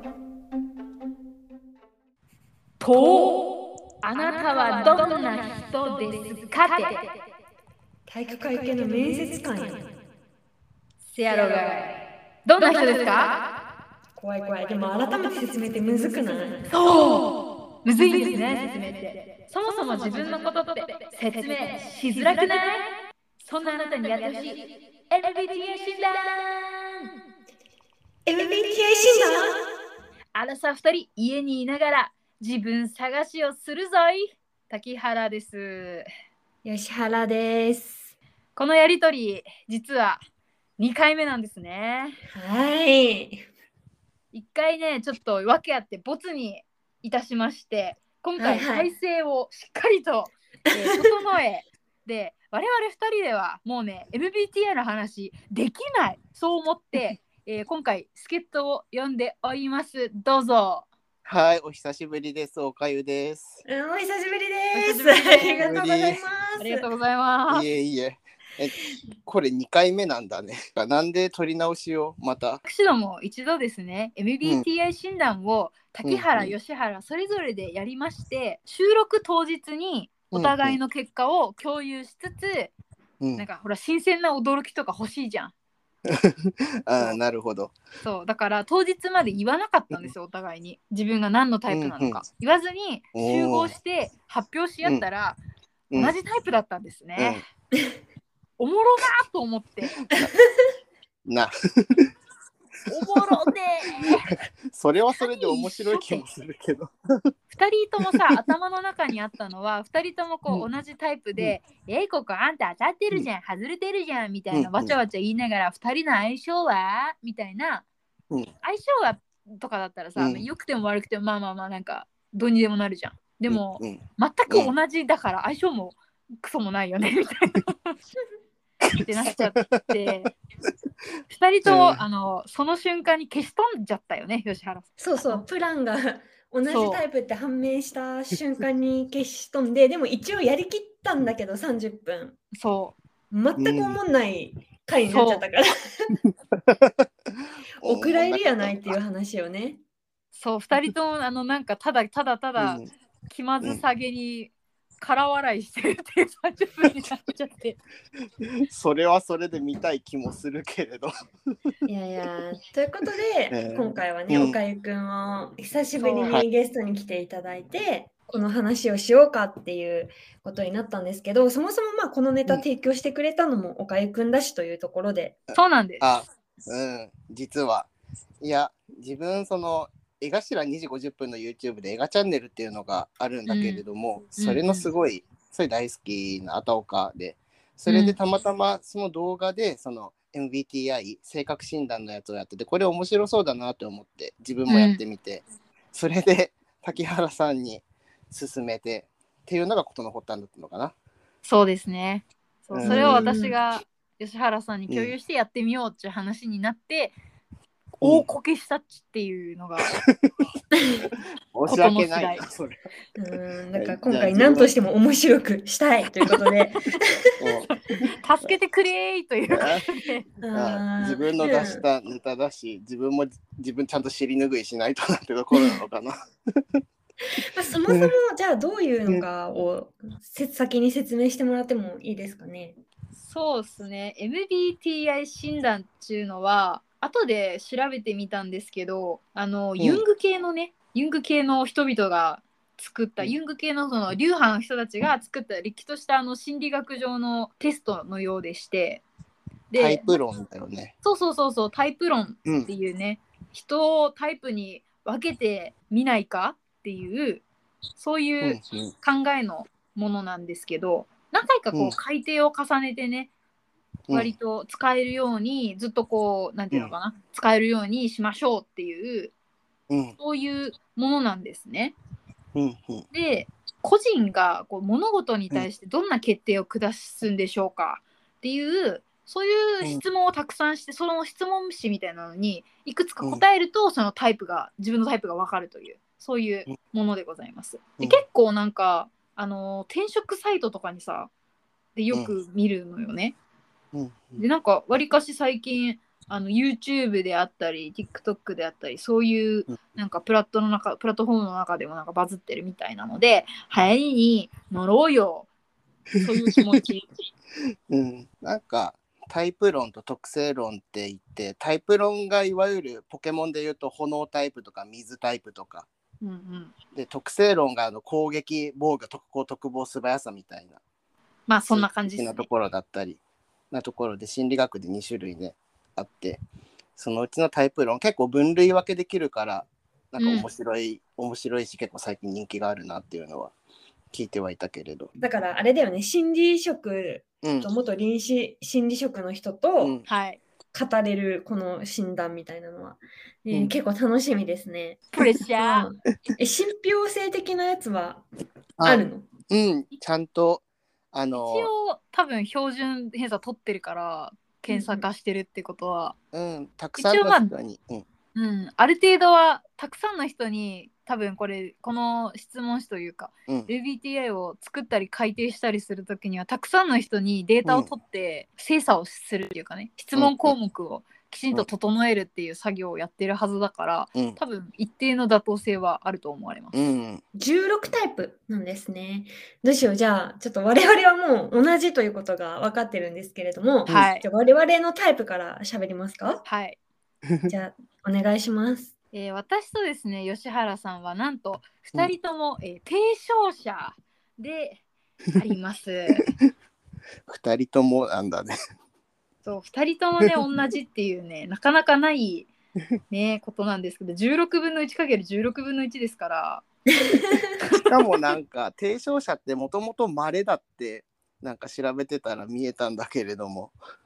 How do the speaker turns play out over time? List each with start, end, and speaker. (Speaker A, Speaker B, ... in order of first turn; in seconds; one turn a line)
Speaker A: 2.8-7.1
Speaker B: 8.1-9.9
Speaker A: 11.1-13.4
Speaker B: 14.2-16.7
Speaker A: 16.7-22.9
Speaker A: 23.4-27.1
Speaker B: 28.3-29.6
Speaker A: 30.4-36.1
Speaker B: 36.6-38.1
Speaker A: 38.6-40.2
Speaker A: 40.8-42.2
Speaker B: 42.3-43.5
Speaker A: 44.3-60.9
Speaker B: 48.4-48.9
Speaker C: 61.2-63.6
Speaker B: 63.7-66.9
Speaker A: 64.7-65.7
Speaker C: 65.6-66.2
Speaker A: 66.6-67.7
Speaker C: 67.5-72.6
Speaker A: 72.7-82.7
Speaker C: 76.0-76.5
Speaker C: 80.3-80.8
Speaker C: 83.2-83.5
Speaker A: 83.4-85.5
Speaker C: 86.0-87.8
Speaker A: 88.0-95.4
Speaker C: 91.7-92.2
Speaker C: 93.1-93.8
Speaker A: 95.9-97.4
Speaker C: 97.2-97.4
Speaker A: 98.6-100.0
Speaker C: 101.2-102.1
Speaker A: 102.9-104.3
Speaker C: 104.3-107.3
Speaker A: 105.2-106.2
Speaker A: 107.5-117.9
Speaker C: 114.5-114.9
Speaker A: 118.6-128.0
Speaker C: 120.2-120.5
Speaker C: 123.5-124.7
Speaker C: 128.8-129.8
Speaker A: 129.0-130.3
Speaker A: 131.3-135.4
Speaker C: 131.7-132.0
Speaker B: 135.0-142.4
Speaker A: 136.7-137.0
Speaker A: 142.5-143.0
Speaker B: 143.3-146.2
Speaker C: 143.6-144.0
Speaker A: 145.1-145.4
Speaker C: 146.5-149.0
Speaker B: 147.8-149.8
Speaker A: 150.3-157.8
Speaker C: 152.6-152.9
Speaker C: 158.4-161.1
Speaker B: 161.9-175.4
Speaker C: 163.5-164.6
Speaker A: 166.0-166.4
Speaker C: 175.5-177.9
Speaker A: 175.5-176.1
Speaker C: 178.4-200.9
Speaker A: 183.5-183.8
Speaker A: 184.4-184.9
Speaker A: 187.9-188.2
Speaker A: 194.7-195.0
Speaker A: 201.4-207.2
Speaker C: 202.7-203.3
Speaker B: 202.8-203.6
Speaker C: 204.9-205.1
Speaker A: 208.0-210.0
Speaker C: 208.0-208.3
Speaker C: 209.9-210.3
Speaker B: 210.8-211.1
Speaker C: 211.5-212.8
Speaker A: 211.7-212.4
Speaker B: 213.2-217.5
Speaker C: 213.8-214.7
Speaker C: 217.4-218.1
Speaker A: 217.7-220.2
Speaker C: 219.5-219.8
Speaker B: 220.4-221.8
Speaker C: 220.5-226.8
Speaker B: 227.5-232.8
Speaker C: 227.9-228.1
Speaker A: 233.2-249.0
Speaker A: 249.7-250.1
Speaker C: 249.8-250.9
Speaker A: 251.0-257.4
Speaker C: 252.5-252.7
Speaker A: 258.0-263.3
Speaker C: 258.4-258.9
Speaker C: 264.1-264.3
Speaker A: 264.1-269.3
Speaker C: 269.9-270.2
Speaker A: 270.2-271.9
Speaker C: 272.6-273.1
Speaker A: 273.1-291.3
Speaker A: 292.0-293.4
Speaker C: 293.9-294.4
Speaker A: 294.4-305.5
Speaker C: 306.2-306.6
Speaker A: 306.2-307.3
Speaker C: 307.9-315.9
Speaker A: 316.2-316.7
Speaker C: 316.9-320.8
Speaker A: 321.5-322.5
Speaker C: 321.7-323.2
Speaker C: 323.7-326.4
Speaker C: 327.0-333.5
Speaker A: 330.2-330.5
Speaker C: 334.1-335.1
Speaker B: 335.2-340.0
Speaker C: 337.4-337.7
Speaker C: 339.8-340.1
Speaker A: 340.1-340.4
Speaker B: 340.7-348.2
Speaker A: 345.1-345.9
Speaker C: 348.8-351.7
Speaker B: 348.8-349.3
Speaker A: 351.3-356.2
Speaker B: 354.7-355.1
Speaker C: 356.3-358.1
Speaker A: 357.0-357.5
Speaker A: 358.3-376.8
Speaker C: 370.2-370.6
Speaker C: 376.7-377.2
Speaker B: 377.4-386.4
Speaker A: 383.9-384.3
Speaker A: 386.4-386.8
Speaker C: 387.3-387.5
Speaker B: 387.5-388.9
Speaker A: 389.1-394.8
Speaker A: 395.3-396.3
Speaker C: 397.3-398.6
Speaker A: 399.4-402.5
Speaker A: 403.1-406.6
Speaker B: 406.9-407.6
Speaker C: 407.8-413.8